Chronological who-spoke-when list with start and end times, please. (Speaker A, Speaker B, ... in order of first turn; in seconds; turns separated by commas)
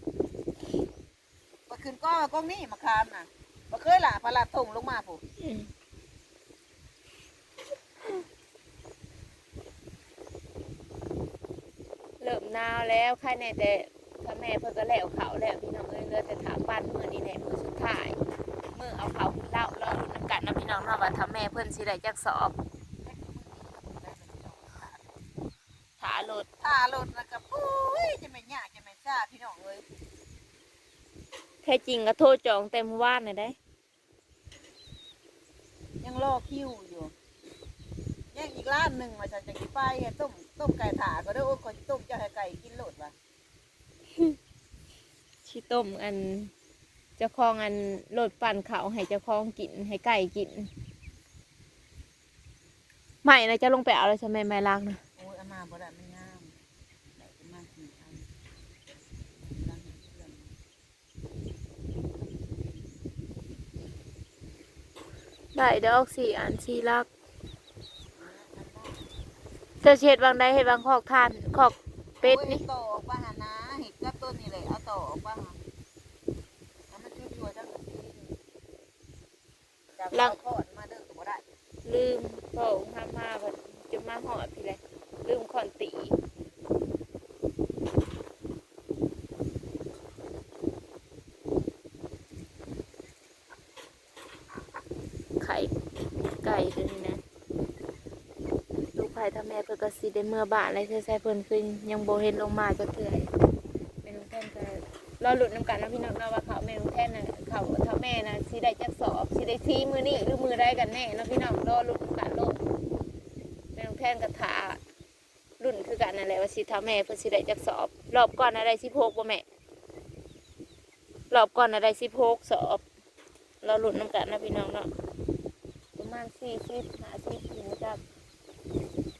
Speaker A: 1.7-5.2, Speaker B: 5.4-5.7, Speaker B: 12.2-18.2, Speaker B: 18.7-22.5, Speaker A: 23.0-25.1, Speaker B: 26.0-26.5, Speaker A: 26.6-29.8, Speaker B: 31.6-33.5, Speaker A: 36.0-37.1, Speaker A: 38.3-43.1, Speaker B: 45.4-46.5, Speaker B: 47.2-50.7, Speaker B: 53.2-55.0, Speaker A: 55.2-56.5, Speaker A: 57.1-58.2, Speaker A: 59.3-60.5, Speaker A: 62.0-62.9, Speaker B: 65.5-67.1, Speaker A: 68.2-69.0, Speaker B: 69.8-72.6, Speaker A: 72.2-75.6, Speaker A: 76.9-78.3, Speaker A: 80.0-81.4, Speaker B: 81.8-86.1, Speaker B: 95.4-95.7, Speaker B: 96.3-97.2, Speaker B: 98.9-103.3, Speaker B: 104.0-112.6, Speaker B: 113.7-114.8, Speaker B: 115.6-119.4, Speaker B: 121.3-122.8, Speaker B: 123.6-124.9, Speaker B: 126.0-128.0